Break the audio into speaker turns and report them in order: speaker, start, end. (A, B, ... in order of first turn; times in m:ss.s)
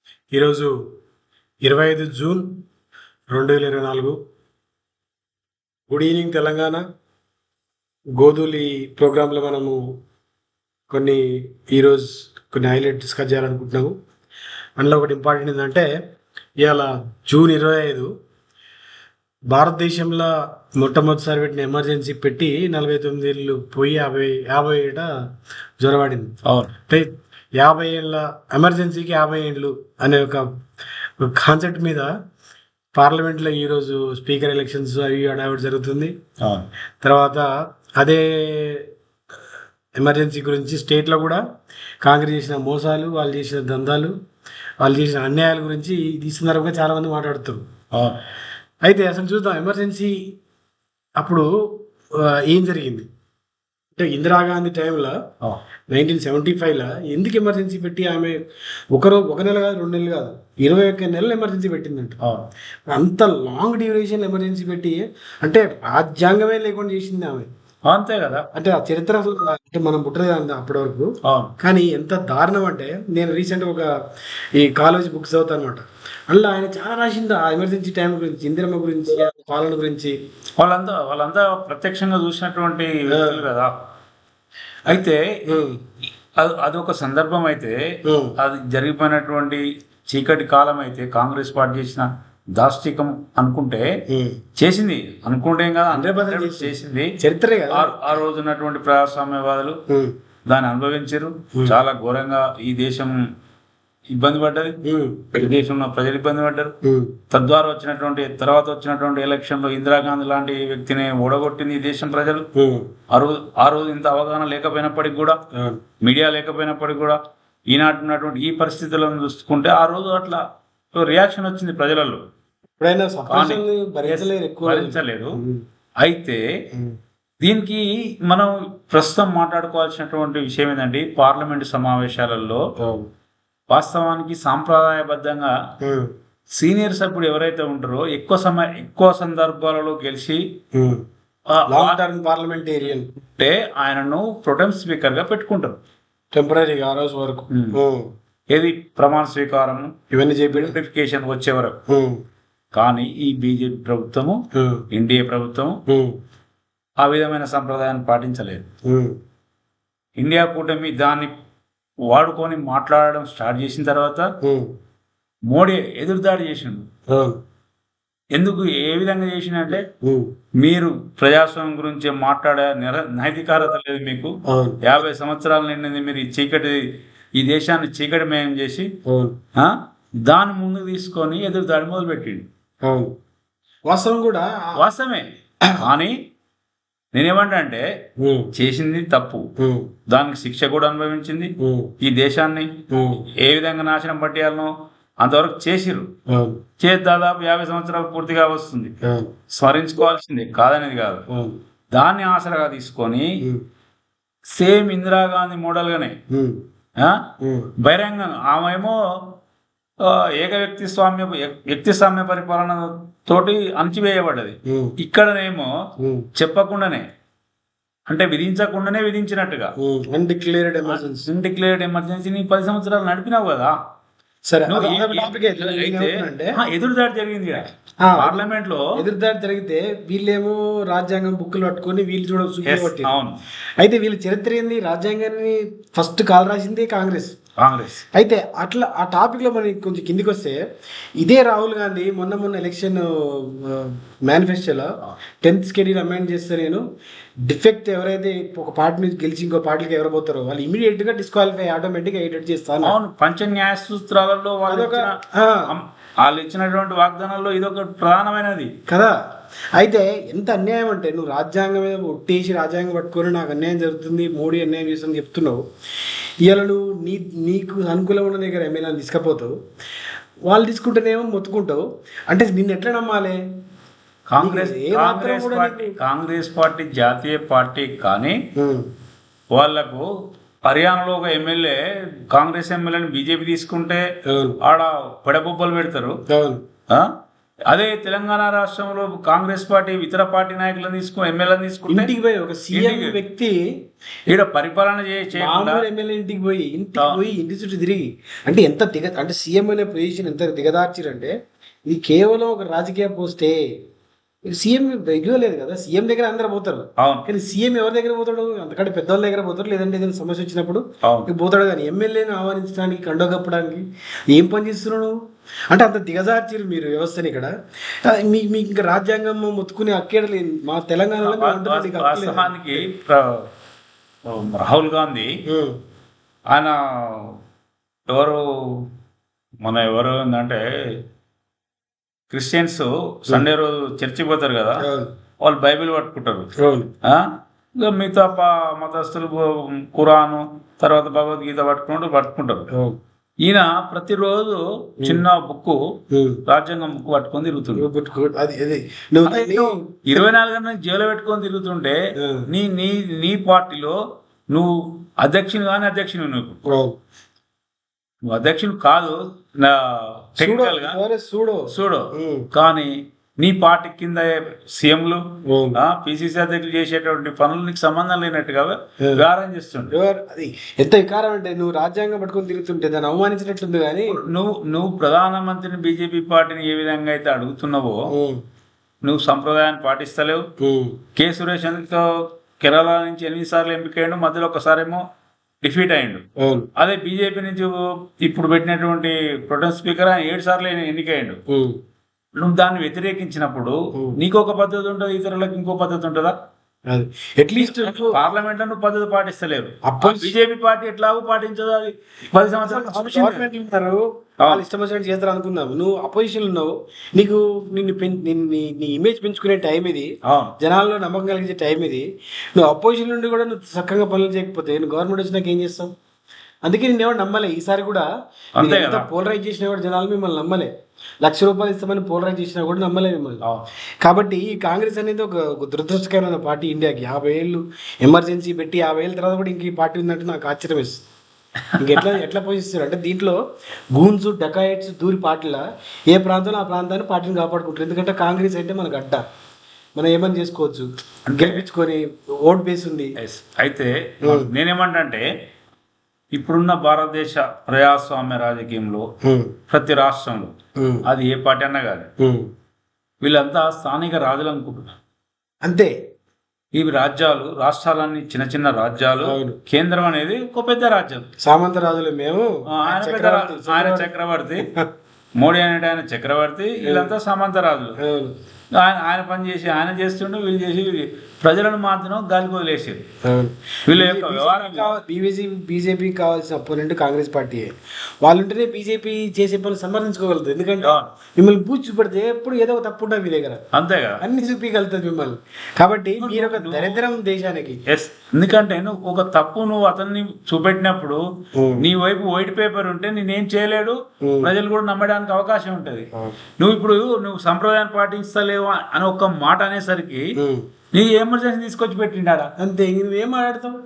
0:00.3-0:00.8 A
0:01.6-0:02.6 A
0:03.3-0:04.2 A
0:05.9-0:06.8 A
0:08.2-0:09.8 A
0:10.9-0:14.0 A
0:14.8-0:15.9 A
0:16.6-0:18.1 A
0:19.5-0:25.1 A
0:25.8-0:26.3 A
0:26.4-0:26.7 B
0:26.9-0:30.5 A
0:31.2-0:32.1 A
0:33.0-0:36.2 A
0:36.4-0:36.7 B
0:37.0-0:38.9 A
0:40.0-0:41.4 A
0:42.0-0:44.1 A
0:44.8-0:47.6 A
0:47.9-0:48.2 B
0:48.9-0:50.3 A
0:51.2-0:51.5 A
0:52.2-0:53.1 A
0:54.0-0:55.2 A
0:55.9-0:58.4 A
0:58.9-1:02.2 A
1:02.2-1:02.5 B
1:02.9-1:07.5 A
1:07.9-1:08.5 B
1:08.5-1:14.0 A
1:11.2-1:11.5 B
1:14.6-1:20.2 A
1:20.6-1:23.7 B
1:23.1-1:23.4 A
1:24.9-1:25.6 B
1:24.9-1:25.8 A
1:26.4-1:27.8 B
1:28.0-1:28.4 A
1:28.4-1:33.9 B
1:34.1-1:34.4 A
1:34.6-1:37.1 B
1:35.9-1:38.1 A
1:37.7-1:39.8 B
1:39.9-1:40.1 A
1:40.5-1:43.2 B
1:44.1-1:44.8 B
1:44.8-1:45.4 A
1:45.4-1:46.7 B
1:46.8-1:47.2 A
1:47.3-1:52.5 B
1:52.6-1:52.9 A
1:53.1-1:55.4 B
1:55.5-1:55.8 A
1:56.0-1:57.2 B
1:57.7-2:00.4 B
2:00.9-2:02.2 B
2:02.8-2:05.6 A
2:03.3-2:05.4 B
2:06.0-2:06.4 B
2:07.4-2:12.6 B
2:12.8-2:13.1 A
2:13.7-2:15.5 B
2:15.8-2:16.1 A
2:16.5-2:20.4 B
2:20.7-2:21.0 A
2:21.5-2:22.0 B
2:21.7-2:23.1 A
2:23.4-2:25.8 B
2:26.3-2:28.1 A
2:27.5-2:27.8 B
2:28.5-2:29.9 B
2:30.1-2:30.8 A
2:30.5-2:31.8 B
2:31.9-2:32.2 A
2:32.7-2:34.4 B
2:34.5-2:34.8 A
2:34.9-2:35.8 B
2:35.9-2:36.2 A
2:37.0-2:38.7 B
2:38.8-2:39.2 A
2:40.2-2:41.3 B
2:42.1-2:44.3 B
2:44.4-2:44.7 A
2:45.5-2:46.9 B
2:47.1-2:47.4 A
2:48.3-2:49.9 B
2:50.0-2:50.3 A
2:50.6-2:56.8 B
2:54.5-2:54.8 A
2:57.4-2:58.9 B
2:59.1-2:59.4 A
2:59.6-3:02.5 B
3:02.8-3:03.1 A
3:03.9-3:04.8 A
3:04.8-3:06.2 B
3:07.1-3:07.9 B
3:08.2-3:08.5 A
3:08.6-3:09.5 B
3:09.6-3:09.9 A
3:10.1-3:12.8 B
3:11.6-3:11.9 A
3:12.9-3:13.3 A
3:13.4-3:16.1 B
3:16.3-3:16.6 A
3:16.8-3:19.0 B
3:19.0-3:19.3 A
3:19.5-3:21.2 B
3:21.3-3:21.6 A
3:21.9-3:23.4 B
3:24.5-3:26.2 B
3:26.3-3:26.6 A
3:27.0-3:27.2 B
3:27.4-3:27.7 A
3:27.8-3:29.3 B
3:30.0-3:35.7 B
3:34.7-3:35.0 A
3:36.0-3:36.3 A
3:36.4-3:37.1 B
3:38.1-3:39.7 B
3:39.8-3:41.3 A
3:40.9-3:43.8 B
3:44.5-3:46.6 A
3:44.7-3:49.0 B
3:48.0-3:53.2 A
3:52.6-3:53.4 B
3:53.8-3:57.4 A
3:57.6-3:58.0 B
3:58.2-4:00.6 A
4:01.2-4:06.8 A
4:07.4-4:13.0 A
4:12.8-4:18.7 B
4:14.7-4:15.8 A
4:18.9-4:19.2 A
4:19.8-4:25.6 A
4:26.4-4:29.5 A
4:30.5-4:33.4 A
4:34.3-4:38.4 B
4:34.4-4:36.0 A
4:38.6-4:38.9 A
4:39.5-4:40.1 B
4:40.6-4:44.0 B
4:44.3-4:44.6 A
4:44.6-4:46.2 B
4:46.3-4:46.6 A
4:46.9-4:47.1 B
4:47.7-4:52.1 B
4:51.9-4:53.6 A
4:52.7-4:53.2 B
4:54.3-4:55.8 B
4:55.3-5:01.3 A
5:01.9-5:03.6 A
5:04.5-5:15.2 A
5:07.0-5:07.3 B
5:11.0-5:11.3 B
5:15.7-5:17.5 A
5:18.0-5:22.8 A
5:21.2-5:23.5 B
5:24.3-5:25.4 B
5:25.5-5:25.8 A
5:26.5-5:27.4 B
5:28.1-5:28.9 B
5:29.6-5:31.0 B
5:32.3-5:34.9 B
5:34.8-5:35.1 A
5:35.4-5:36.5 B
5:36.6-5:36.9 A
5:37.0-5:42.7 B
5:42.7-5:43.0 A
5:43.4-5:45.8 B
5:46.1-5:46.4 A
5:46.5-5:47.9 B
5:47.8-5:50.2 A
5:49.2-5:54.0 B
5:52.2-5:52.5 A
5:54.5-5:56.6 B
5:56.7-5:57.0 A
5:58.3-6:01.0 B
6:00.4-6:02.5 A
6:01.7-6:05.2 B
6:05.5-6:05.8 A
6:05.8-6:09.9 B
6:09.9-6:14.2 A
6:14.1-6:18.0 B
6:18.1-6:18.4 A
6:19.0-6:20.5 B
6:20.6-6:21.0 A
6:21.2-6:22.1 B
6:22.6-6:25.0 B
6:25.6-6:26.2 B
6:26.4-6:26.7 A
6:26.8-6:31.4 B
6:31.5-6:31.8 A
6:32.4-6:36.4 B
6:36.9-6:38.2 A
6:37.6-6:43.5 B
6:39.8-6:40.4 A
6:42.6-6:55.9 A
6:50.2-6:50.5 B
6:56.6-6:58.1 A
6:58.6-6:59.1 B
6:58.6-7:00.7 A
7:01.2-7:03.4 A
7:04.0-7:11.0 A
7:11.8-7:13.4 A
7:13.9-7:19.2 A
7:20.0-7:20.9 A
7:21.3-7:21.6 B
7:21.4-7:23.2 A
7:23.2-7:25.3 B
7:24.2-7:24.5 A
7:26.3-7:29.1 B
7:29.2-7:29.6 A
7:29.7-7:30.5 B
7:30.8-7:31.1 A
7:31.0-7:32.1 B
7:32.2-7:32.5 A
7:33.2-7:35.0 B
7:35.6-7:35.9 A
7:36.7-7:41.3 B
7:39.2-7:39.6 A
7:41.4-7:44.9 A
7:42.7-7:44.7 B
7:45.4-7:48.0 B
7:46.8-7:47.1 A
7:48.0-7:48.3 A
7:48.8-7:53.0 B
7:53.2-7:57.7 A
7:53.9-7:55.0 B
7:58.2-8:03.6 A
8:00.8-8:01.1 B
8:03.7-8:04.2 B
8:04.2-8:07.8 A
8:06.2-8:07.0 B
8:07.9-8:11.2 B
8:11.6-8:11.9 A
8:11.8-8:20.3 B
8:14.2-8:14.5 A
8:20.4-8:20.6 A
8:20.9-8:22.5 B
8:22.6-8:23.8 A